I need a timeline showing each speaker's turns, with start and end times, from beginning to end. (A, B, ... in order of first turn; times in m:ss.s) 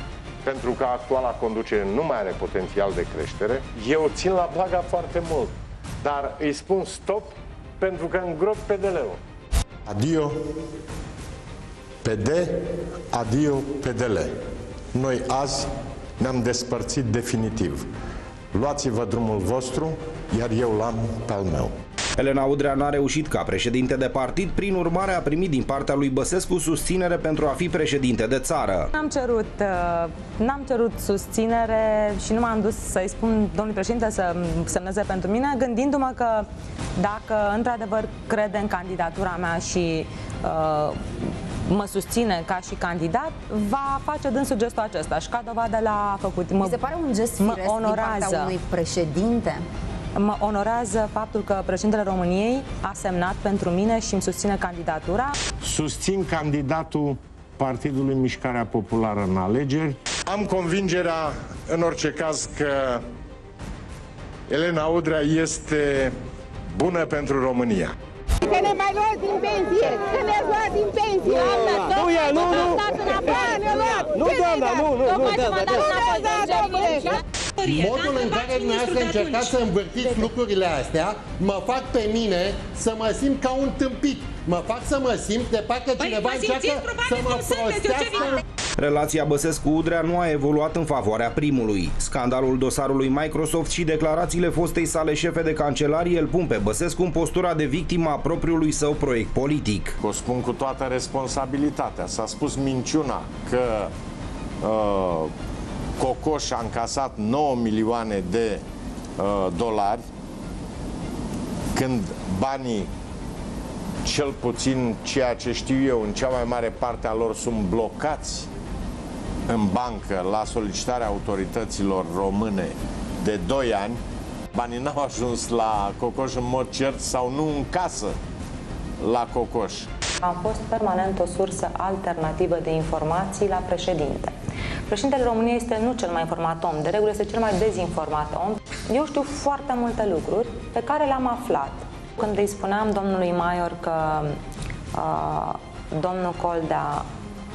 0:00.4-0:09.2 A
0:09.8-0:10.3 A
0:12.0-0:12.5 A
0:13.1-0:14.3 A
0:14.9-0:15.7 A
0:16.2-0:17.9 A
0:18.5-0:21.7 A
0:22.2-0:28.9 B
0:28.9-0:46.8 C
0:46.6-0:49.6 D
0:47.4-0:48.5 C
0:50.2-0:55.4 C
0:55.6-1:03.0 A
1:04.5-1:06.1 A
1:06.7-1:07.9 A
1:09.4-1:10.0 D
1:15.5-1:19.5 E
1:17.6-1:28.4 F
1:26.0-1:28.3 E
1:28.8-1:40.0 B
1:40.0-1:43.9 A
1:44.6-1:45.3 A
1:46.0-1:48.6 A
1:49.2-1:50.0 A
1:51.7-1:52.9 A
1:54.0-1:58.5 A
1:59.5-2:04.0 A
2:04.5-2:08.2 A
2:09.0-2:09.9 A
2:10.2-2:14.3 C
2:14.9-2:24.3 C
2:24.9-2:27.1 C